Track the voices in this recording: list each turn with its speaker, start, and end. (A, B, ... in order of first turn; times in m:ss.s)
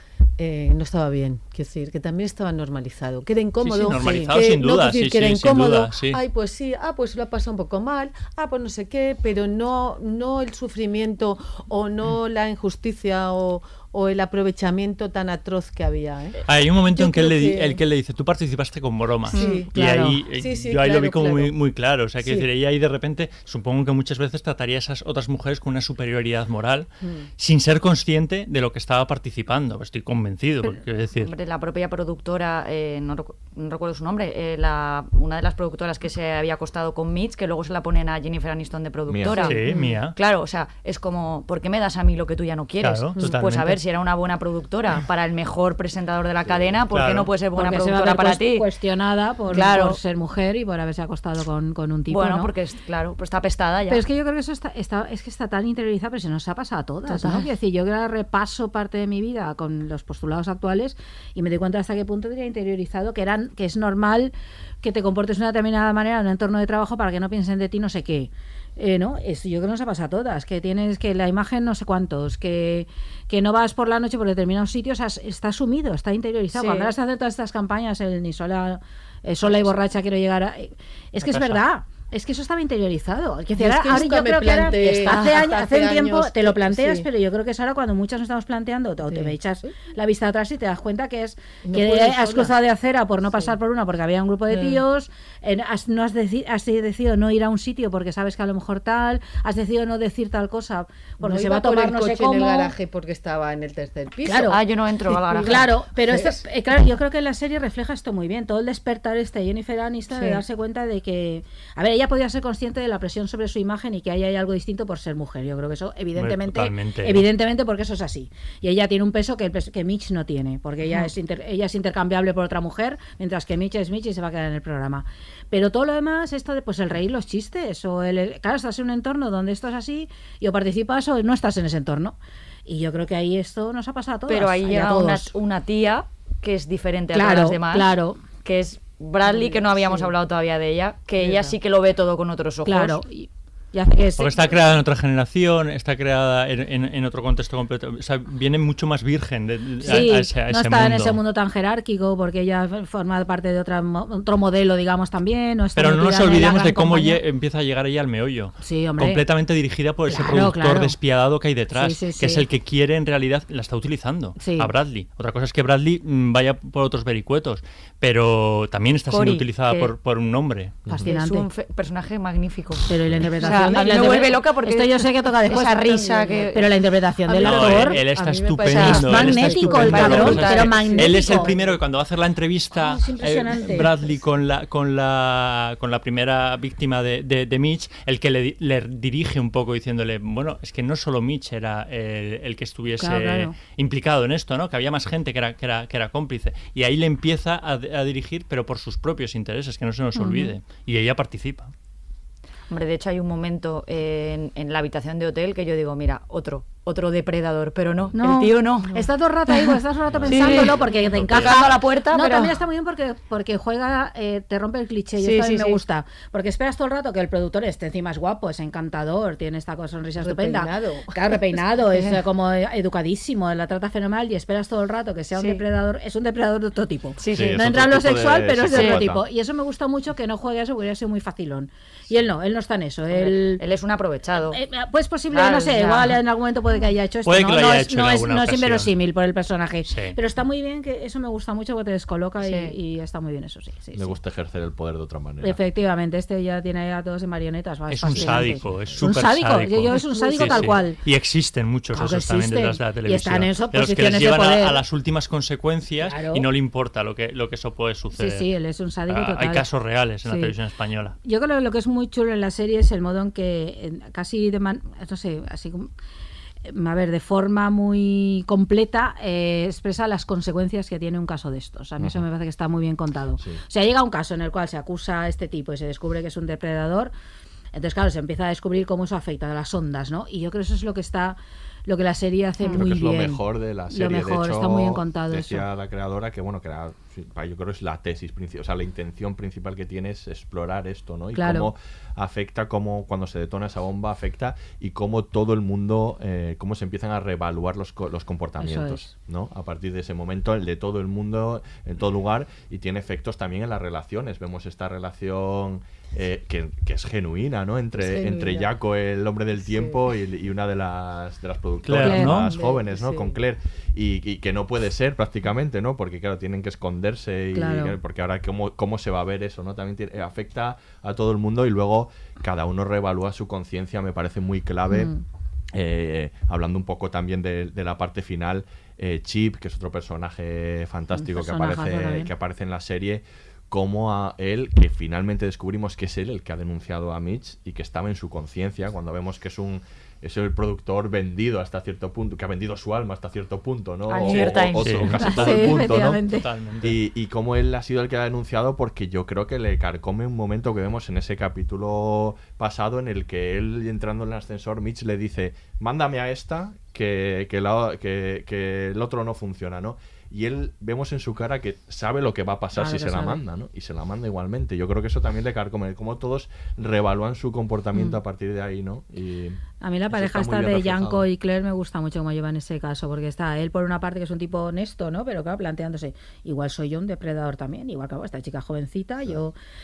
0:00.4-0:16.4 A
0:03.6-0:06.2 B
0:04.0-0:04.3 C
0:16.4-0:31.3 B
0:16.9-0:17.8 A
0:19.3-0:19.7 A
0:19.3-0:20.2 C
0:20.3-0:21.5 A
0:27.0-0:27.3 A
0:31.2-0:48.7 D
0:39.1-0:39.6 E
0:39.4-0:40.2 B
0:42.8-0:43.8 B
0:46.9-0:47.3 B
0:47.5-0:52.5 C
0:49.5-0:50.0 D
0:52.1-0:54.0 D
0:53.9-1:42.7 C
0:57.1-0:57.5 D
1:16.5-1:16.9 A
1:19.4-1:19.7 A
1:21.2-1:21.6 B
1:23.6-1:27.1 A
1:25.0-1:25.5 D
1:29.0-1:29.7 A
1:31.6-1:32.5 A
1:33.2-1:33.6 A
1:34.5-1:34.8 A
1:41.2-1:46.4 A
1:44.2-1:44.6 C
1:44.3-1:45.7 D
1:45.4-2:15.3 C
1:50.1-1:50.4 A
1:56.2-1:57.2 B
2:14.3-2:23.0 D
2:17.1-2:18.2 C
2:19.2-2:20.1 A
2:21.2-2:21.5 A
2:22.6-2:24.6 C
2:24.2-2:31.2 B
2:29.8-2:37.2 C
2:35.8-2:50.8 B
2:38.6-2:39.2 C
2:40.1-2:40.9 C
2:41.7-2:42.4 C
2:44.4-2:44.7 C
2:49.1-2:49.4 D
2:49.4-2:49.9 C
2:50.9-2:51.5 C
2:51.0-2:52.8 D
2:52.9-2:58.0 C
2:53.4-2:56.8 D
2:53.4-2:54.2 A
2:57.2-3:01.8 A
2:57.4-3:21.7 B
2:58.7-3:01.1 D
2:58.7-3:01.5 C
3:02.7-3:03.9 C
3:13.0-3:13.5 C
3:20.1-3:20.6 C
3:22.7-3:29.8 D
3:28.1-3:53.6 C
3:30.1-3:30.6 E
3:30.3-3:30.9 A
3:30.3-3:32.6 D
3:31.1-3:31.6 E
3:35.2-3:35.8 A
3:40.2-3:41.6 A
3:45.3-3:45.6 D
3:47.2-3:47.7 D
3:47.3-3:49.2 E
3:48.7-3:49.0 D
3:53.1-3:54.6 D
3:54.5-4:04.2 C
3:55.3-3:56.2 D
3:57.2-3:58.9 B
3:59.9-4:00.2 B
4:02.4-4:02.8 D
4:03.9-4:05.6 E
4:05.4-4:11.0 C
4:07.9-4:18.5 B
4:08.6-4:09.0 E
4:11.9-4:14.8 C
4:16.0-4:16.4 C
4:18.2-4:19.6 C
4:19.1-4:21.2 B
4:20.2-4:20.5 C
4:21.2-4:25.9 C
4:26.6-4:37.1 C
4:37.7-4:45.6 C
4:42.7-5:25.1 E
4:51.3-4:51.7 C
4:58.6-4:59.1 C
5:08.0-5:08.7 A
5:09.6-5:10.0 A
5:11.8-5:12.5 B
5:12.0-5:12.5 C
5:12.5-5:13.4 A
5:17.5-5:18.0 C
5:24.9-5:25.2 C
5:25.7-5:46.2 E
5:31.2-5:32.3 C
5:44.1-5:45.1 D
5:44.1-5:46.4 C
5:44.4-5:45.7 B
5:46.4-5:47.0 B
5:46.8-6:11.3 E
6:02.7-6:03.4 C
6:07.9-6:08.2 C
6:09.8-6:19.5 C